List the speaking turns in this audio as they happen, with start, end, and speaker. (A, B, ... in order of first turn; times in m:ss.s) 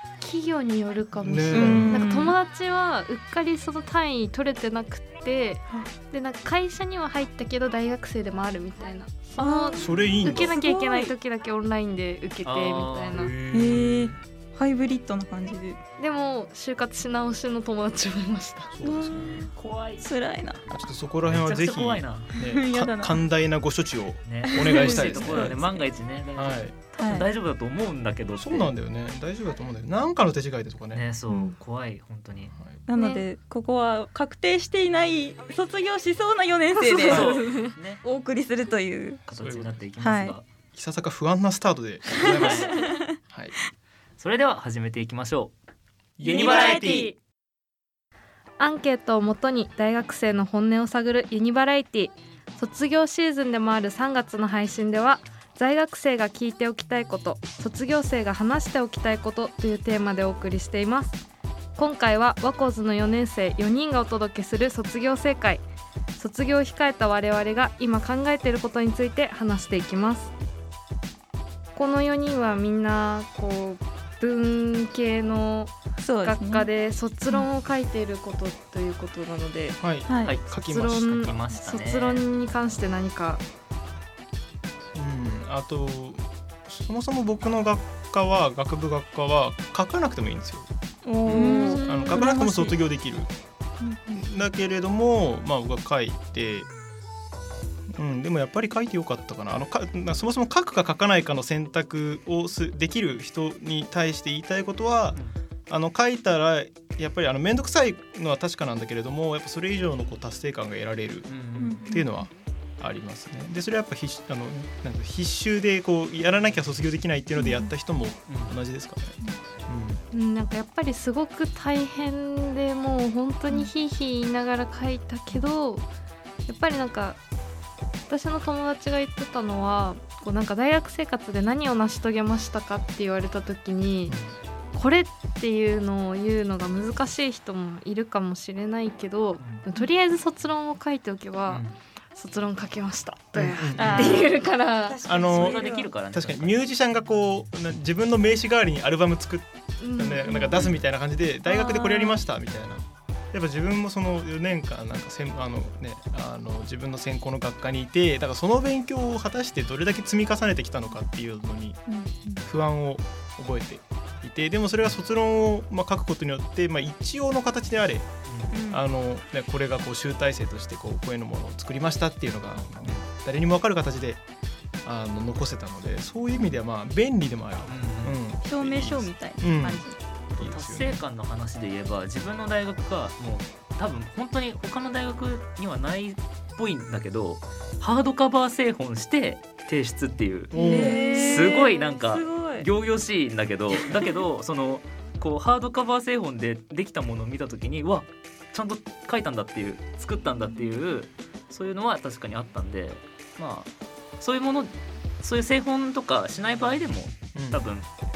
0:00.2-0:13.3 A
0:01.2-0:02.1 B
0:01.5-0:02.3 C
0:09.4-0:11.1 C
0:09.8-0:10.5 B
0:12.4-0:13.2 D
0:13.1-0:14.2 B
0:13.5-0:15.8 C
0:16.0-0:18.7 A
0:18.7-0:19.5 B
0:18.8-0:19.5 C
0:19.5-0:20.1 D
0:20.0-0:20.6 C
0:20.7-0:25.6 B
0:21.2-0:22.3 D
0:22.3-0:23.2 C
0:24.2-0:28.7 D
0:24.5-0:25.7 C
0:26.3-0:26.8 B
0:27.0-0:27.3 C
0:28.4-0:31.0 B
0:30.9-0:32.5 D
0:31.3-0:31.5 C
0:32.9-0:39.2 C
0:33.0-0:33.2 A
0:36.8-0:37.7 A
0:37.0-0:38.0 D
0:39.3-0:40.4 D
0:39.3-0:39.8 B
0:40.0-0:40.3 C
0:40.7-0:43.5 B
0:42.2-0:42.7 D
0:42.2-0:43.0 C
0:44.2-0:45.5 D
0:46.2-0:47.1 B
0:46.3-0:46.7 C
0:46.4-0:46.9 D
0:46.4-0:47.0 A
0:48.6-1:01.2 A
1:01.8-1:05.6 A
1:06.2-1:10.3 A
1:11.7-1:19.8 A
1:16.0-1:16.7 C
1:19.8-1:21.4 B
1:20.1-1:20.3 C
1:20.5-1:23.4 A
1:21.0-1:22.2 D
1:24.9-1:30.7 B
1:31.0-1:32.8 C
1:31.2-1:33.3 B
1:31.3-1:32.2 A
1:33.8-1:34.2 C
1:34.1-1:36.7 B
1:37.9-1:51.3 B
1:51.3-1:51.8 D
1:51.6-1:52.1 C
1:51.8-2:00.0 B
1:57.4-1:57.7 C
1:58.3-1:58.5 D
2:00.1-2:05.8 A
2:06.5-2:07.2 A
2:08.1-2:14.2 A
2:14.1-2:14.3 B
2:14.7-2:21.6 A
2:21.5-2:21.7 D
2:22.1-2:25.0 A
2:23.3-2:24.3 B
2:23.8-2:25.9 C
2:23.8-2:24.2 D
2:25.0-2:41.8 B
2:25.3-2:26.6 D
2:29.8-2:30.6 A
2:30.5-2:30.8 D
2:31.5-2:32.2 C
2:41.9-2:42.4 C
2:42.4-2:48.1 B
2:48.3-2:48.6 D
2:48.5-2:48.8 C
2:48.7-2:54.2 B
2:52.7-2:53.0 D
2:54.8-3:01.0 B
2:57.7-2:58.2 D
2:58.4-3:00.0 C
3:00.4-3:23.7 D
3:10.5-3:11.0 B
3:10.5-3:12.7 C
3:10.6-3:11.5 A
3:24.2-3:27.9 D
3:27.3-3:27.6 B